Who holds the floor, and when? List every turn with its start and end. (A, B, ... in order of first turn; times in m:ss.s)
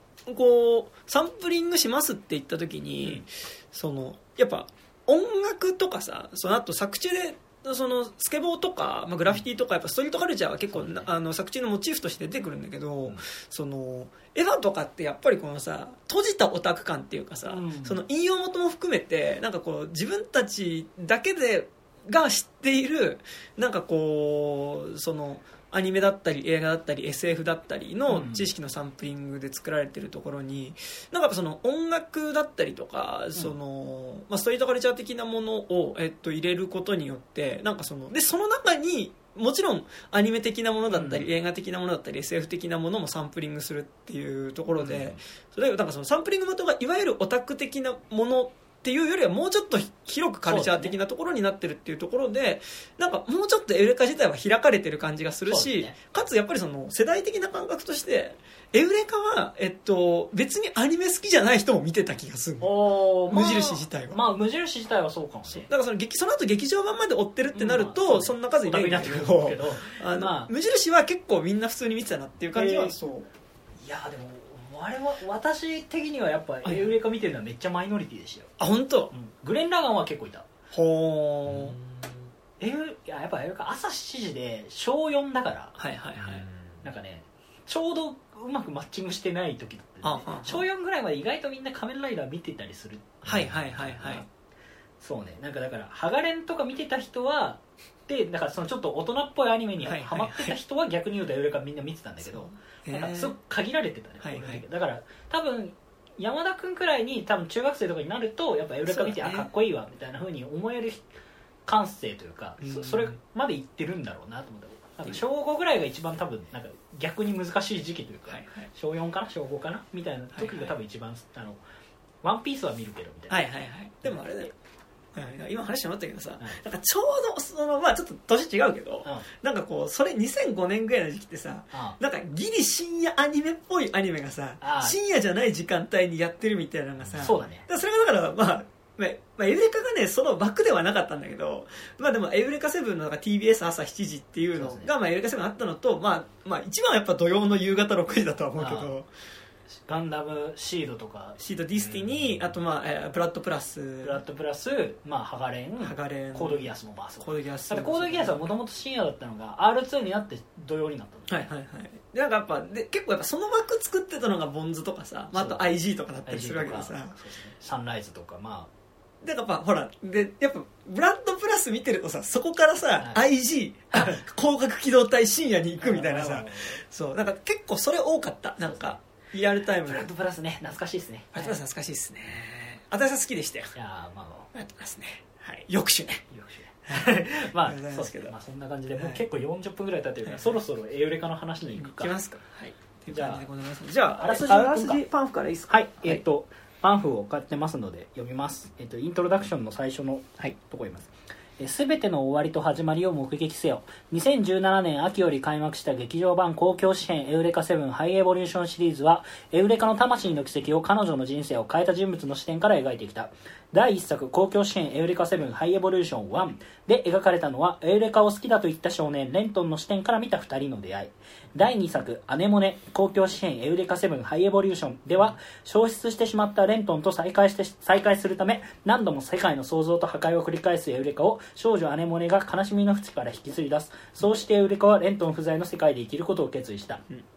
0:00.3-1:02.8 A
0:10.7-0:11.1 B
0:17.4-0:18.0 B
0:28.1-0:28.5 B
0:40.9-0:41.3 B
0:44.8-0:45.2 B
0:50.5-0:51.0 B
0:55.5-0:56.0 B
1:02.6-1:05.7 B
1:03.3-1:04.2 A
1:05.5-1:13.3 A
1:07.5-1:10.5 B
1:12.5-1:13.0 B
1:13.8-1:18.6 B
1:18.6-1:19.1 A
1:19.1-1:20.4 B
1:20.7-1:21.8 A
1:22.6-1:34.3 B
1:25.8-1:26.5 A
1:30.0-1:30.6 A
1:33.2-1:34.2 A
1:35.0-1:51.1 B
1:39.8-1:40.6 A
1:42.2-1:43.3 A
1:44.2-1:44.6 A
1:48.9-1:49.5 A
1:51.7-2:01.6 B
1:52.6-1:53.2 A
1:58.3-1:58.7 A
2:00.4-2:00.7 A
2:02.2-2:03.4 B
2:03.3-2:04.5 A
2:05.2-2:29.1 A
2:11.7-2:12.0 B
2:14.6-2:15.0 B
2:17.2-2:17.6 B
2:24.6-2:24.9 B
2:28.6-2:28.9 B
2:29.8-2:31.4 B
2:31.4-2:34.2 A
2:34.0-2:41.4 B
2:35.8-2:38.5 A
2:41.3-2:47.2 A
2:45.3-2:45.7 B
2:46.2-2:48.7 B
2:49.2-3:00.1 A
2:55.8-2:56.8 B
2:58.6-2:59.0 B
2:59.8-3:01.6 B
3:01.3-3:03.8 A
3:03.8-3:04.5 B
3:04.5-3:06.2 A
3:06.3-3:12.2 B
3:06.9-3:08.3 A
3:09.0-3:09.2 A
3:10.2-3:10.6 A
3:11.7-3:16.2 A
3:13.1-3:13.5 B
3:14.2-3:15.0 B
3:15.7-3:57.0 B